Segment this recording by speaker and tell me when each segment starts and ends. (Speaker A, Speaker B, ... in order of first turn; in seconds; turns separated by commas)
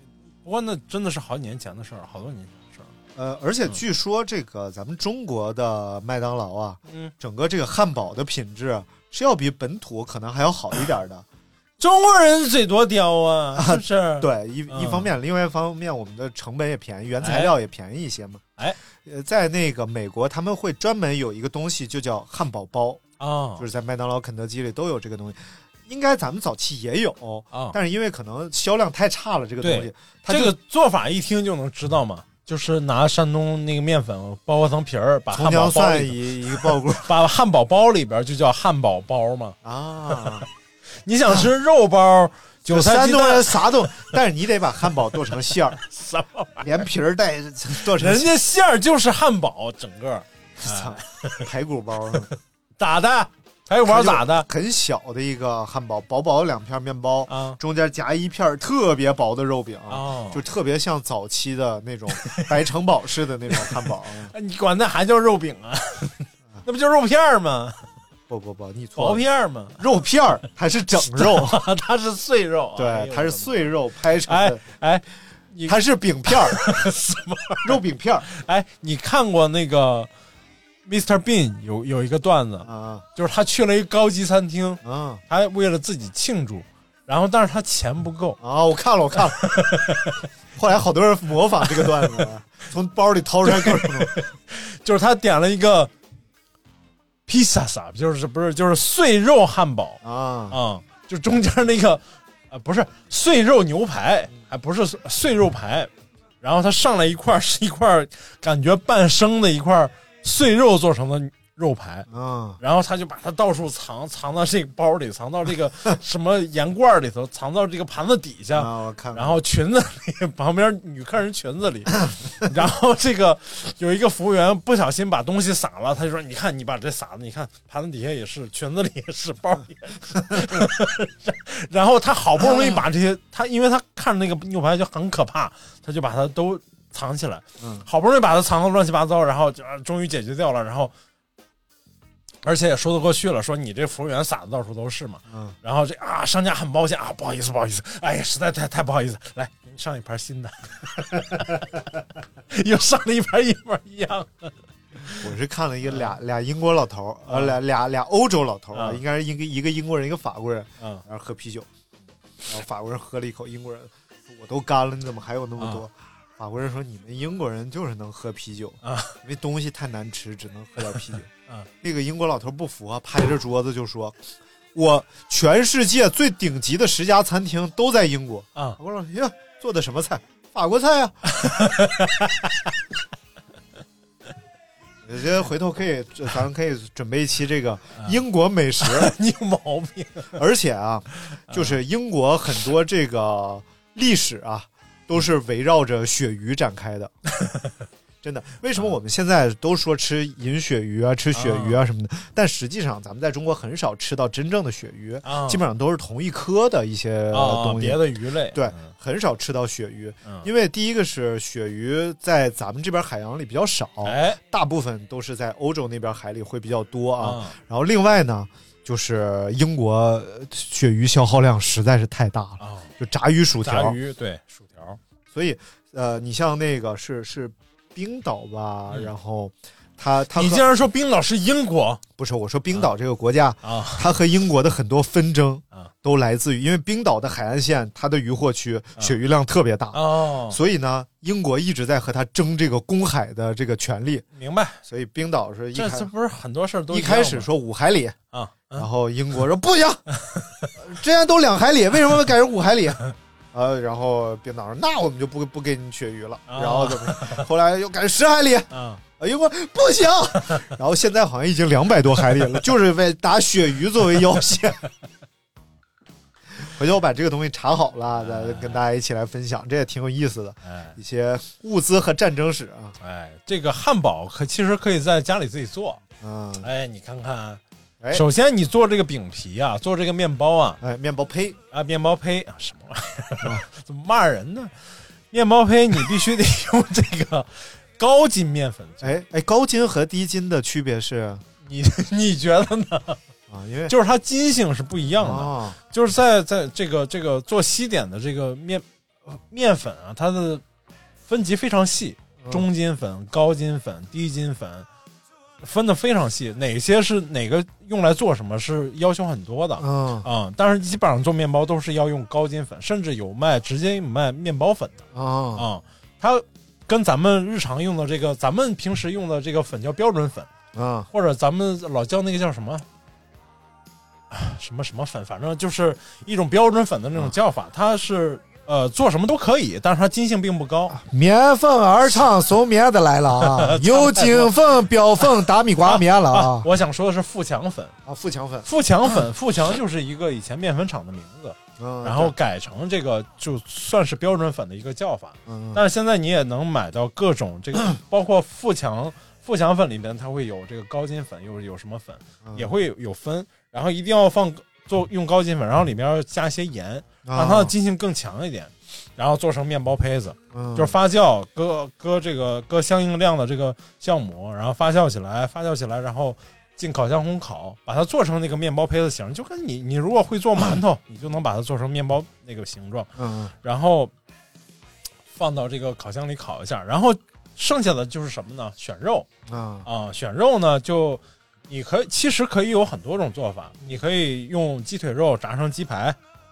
Speaker A: 0.4-2.9, Speaker B: 3.1-11.2, Speaker A: 11.8-15.1, Speaker B: 13.5-18.4, Speaker A: 17.2-17.5, Speaker B: 19.0-23.0, Speaker A: 23.2-23.6, Speaker B: 23.6-30.6, Speaker A: 27.5-27.8, Speaker A: 29.6-39.5, Speaker B: 35.3-37.1, Speaker B: 39.6-40.5, Speaker A: 41.0-44.1, Speaker B: 42.7-45.8, Speaker A: 45.5-46.8, Speaker B: 46.6-48.3, Speaker A: 47.8-51.4, Speaker B: 50.6-52.3, Speaker A: 52.1-54.5, Speaker B: 53.8-64.3, Speaker A: 57.3-57.6, Speaker A: 59.9-60.4, Speaker A: 62.2-62.5, Speaker A: 64.3-67.8, Speaker B: 68.3-69.2, Speaker A: 69.0-69.8, Speaker B: 69.8-71.6, Speaker A: 71.1-73.7, Speaker B: 72.8-74.6, Speaker A: 74.2-80.1, Speaker B: 75.6-76.7, Speaker B: 77.6-78.3, Speaker A: 80.8-88.4, Speaker B: 82.6-83.0, Speaker B: 84.8-85.2, Speaker B: 88.4-89.5, Speaker A: 89.4-90.2, Speaker B: 90.5-94.2, Speaker A: 91.8-92.2, Speaker A: 93.4-95.9, Speaker A: 97.3-105.9, Speaker B: 100.0-100.6, Speaker A: 106.4-112.0, Speaker B: 112.1-112.6, Speaker A: 112.6-140.9, Speaker B: 118.5-119.4, Speaker B: 132.4-132.8, Speaker B: 137.6-137.8, Speaker A: 142.4-155.3, Speaker B: 145.3-145.6, Speaker B: 155.1-161.7, Speaker A: 157.3-157.6, Speaker A: 158.7-159.0, Speaker B: 162.5-171.3, Speaker A: 168.8-169.2, Speaker B: 171.8-174.2, Speaker B: 174.7-181.3, Speaker A: 181.3-182.5, Speaker B: 185.0-189.1, Speaker A: 188.8-190.4, Speaker B: 190.3-197.1, Speaker A: 191.3-191.8, Speaker A: 197.4-197.7, Speaker B: 198.2-224.0, Speaker A: 201.3-201.8, Speaker A: 205.2-205.6, Speaker A: 207.3-208.9, Speaker A: 214.0-214.4, Speaker A: 217.2-217.6, Speaker A: 222.6-222.9, Speaker A: 223.6-225.0, Speaker B: 225.3-230.7, Speaker A: 230.3-232.0, Speaker B: 232.2-244.2, Speaker A: 233.6-234.1, Speaker A: 239.9-240.6, Speaker A: 244.3-244.8, Speaker B: 244.8-246.1, Speaker A: 245.7-247.5, Speaker B: 246.9-248.2, Speaker A: 248.3-248.9, Speaker B: 248.7-250.0, Speaker A: 250.3-250.7, Speaker B: 250.8-253.0, Speaker B: 253.5-264.8, Speaker A: 256.5-257.4, Speaker A: 258.7-259.0, Speaker B: 266.6-272.9, Speaker A: 268.1-268.8, Speaker A: 270.6-270.9, Speaker A: 273.0-276.0, Speaker B: 276.2-276.7, Speaker A: 276.6-277.6, Speaker A: 278.1-280.8, Speaker B: 280.8-281.6, Speaker A: 281.7-284.7, Speaker A: 285.3-289.1, Speaker B: 289.0-291.4, Speaker A: 291.6-293.2, Speaker B: 293.5-293.9, Speaker A: 293.9-300.6, Speaker B: 295.2-295.8, Speaker A: 301.3-304.9, Speaker B: 302.4-302.7, Speaker A: 305.6-315.0, Speaker B: 309.8-310.3, Speaker B: 315.1-315.6, Speaker A: 315.6-320.5, Speaker B: 320.7-321.1, Speaker A: 321.1-322.9, Speaker A: 324.3-330.9, Speaker B: 330.9-336.7, Speaker A: 333.4-337.9, Speaker B: 338.0-339.1, Speaker A: 338.6-373.1, Speaker B: 341.8-342.3, Speaker B: 345.5-345.8, Speaker B: 352.4-352.7, Speaker B: 357.2-357.7, Speaker B: 360.5-360.9, Speaker B: 373.2-373.5, Speaker A: 373.6-374.1, Speaker A: 375.3-379.3, Speaker B: 379.5-379.9, Speaker A: 379.8-386.2